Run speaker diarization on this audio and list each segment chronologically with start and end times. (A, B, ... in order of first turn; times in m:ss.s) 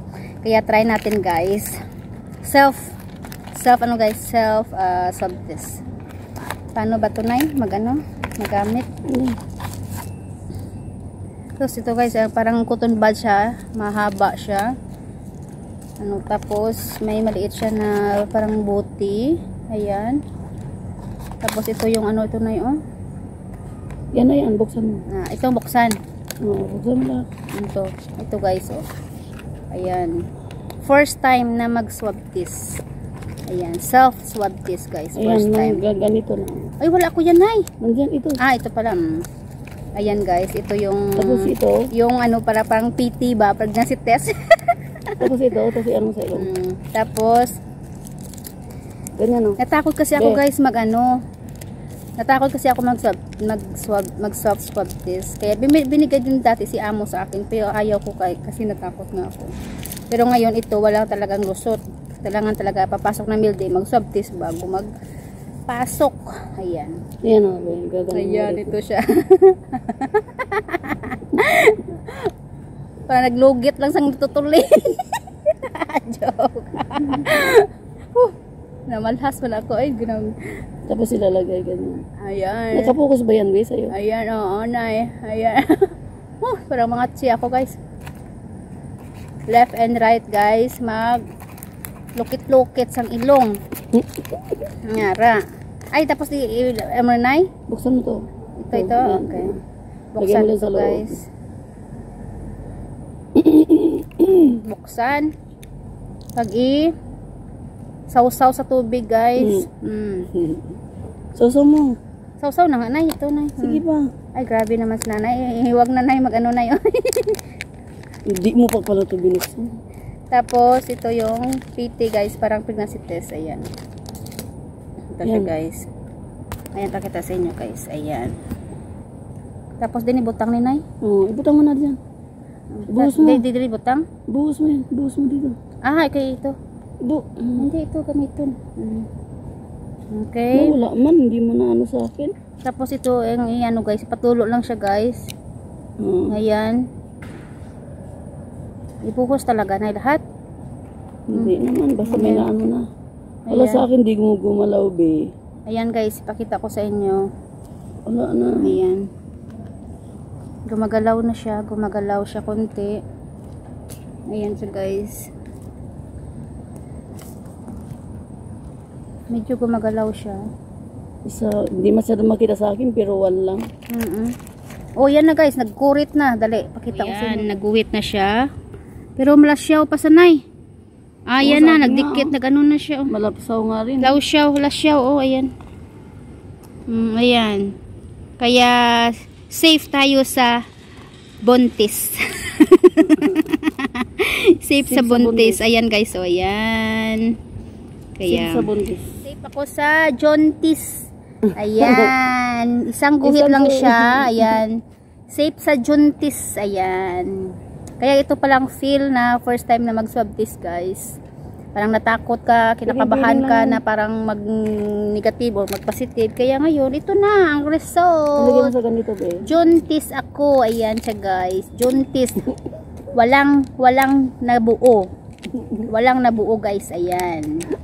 0:00.4-0:01.8 A
0:02.4-0:03.0 A
0:03.5-0:05.8 A
0:06.7-0:08.9 A
0:09.1-0:09.4 B
0:11.6-0:14.7 A
0:16.0-0:20.2 A
0:21.4-0:22.8 A
0:24.1-0:25.0 B
0:25.1-0:26.0 A
0:26.4-0:27.2 B
0:27.6-0:28.9 A
0:29.7-0:30.2 A
0:30.8-0:32.8 A
0:33.5-0:35.8 A
0:35.2-0:36.7 B
0:36.8-0:37.7 A
0:37.8-0:38.4 B
0:38.4-0:39.2 A
0:40.0-0:45.3 A
0:41.2-0:41.9 B
0:45.2-0:46.5 B
0:46.4-0:47.6 A
0:49.2-0:49.6 B
0:49.6-0:51.1 A
0:50.2-0:50.4 B
0:52.2-0:59.5 A
1:00.1-1:04.9 A
1:05.7-1:07.0 A
1:07.2-1:08.8 B
1:08.1-1:12.3 A
1:13.1-1:18.4 A
1:18.9-1:20.5 A
1:20.9-1:22.0 B
1:22.2-1:23.0 A
1:22.7-1:23.9 B
1:23.9-1:25.8 A
1:26.4-1:27.8 A
1:29.5-1:31.2 A
1:32.2-1:33.6 A
1:33.9-1:34.6 B
1:34.8-1:37.5 A
1:37.7-1:39.6 B
1:38.6-1:39.5 A
1:40.1-1:41.3 A
1:40.2-1:41.2 B
1:43.4-1:44.6 B
1:44.4-1:45.3 A
1:46.4-1:46.9 A
1:48.1-1:50.3 A
1:49.4-1:49.7 B
1:50.3-1:50.7 B
1:51.4-1:52.0 B
1:52.4-1:53.8 A
1:53.6-1:54.1 B
1:54.4-1:57.4 A
1:58.3-1:59.8 B
2:00.3-2:03.7 A
2:05.1-2:05.9 A
2:05.2-2:05.5 B
2:06.8-2:08.4 A
2:09.8-2:10.8 A
2:11.0-2:12.0 B
2:12.7-2:14.1 A
2:12.9-2:13.4 B
2:14.3-2:15.6 B
2:15.8-2:16.6 A
2:17.0-2:17.7 B
2:17.6-2:19.1 A
2:20.1-2:20.8 A
2:20.6-2:22.4 B
2:22.6-2:25.3 A
2:26.0-2:26.4 B
2:26.3-2:26.8 A
2:29.0-2:30.2 A
2:31.3-2:32.8 B
2:31.3-2:32.5 A
2:33.5-2:33.9 A
2:33.5-2:35.3 B
2:35.7-2:37.3 A
2:38.1-2:38.8 B
2:38.6-2:39.1 A
2:40.7-2:43.0 A
2:44.3-2:45.3 A
2:49.3-2:50.4 A
2:51.3-2:53.7 B
2:53.9-2:54.4 A
2:55.0-2:58.5 A
2:57.1-2:57.5 B
2:59.2-3:00.4 A
3:01.3-3:03.1 A
3:01.4-3:02.3 B
3:03.1-3:04.2 B
3:04.0-3:05.5 A
3:06.9-3:07.8 A
3:08.4-3:10.6 A
3:11.4-3:17.3 A
3:13.2-3:13.4 B
3:14.8-3:15.6 B
3:18.2-3:18.7 A
3:18.2-3:19.0 B
3:19.2-3:31.2 A
3:21.8-3:22.1 B
3:23.2-3:24.6 B
3:31.8-3:38.7 A
3:32.9-3:33.8 B
3:38.4-3:39.5 B
3:39.4-3:42.5 A
3:43.1-3:45.1 A
3:45.5-3:45.9 B
3:45.9-3:47.5 A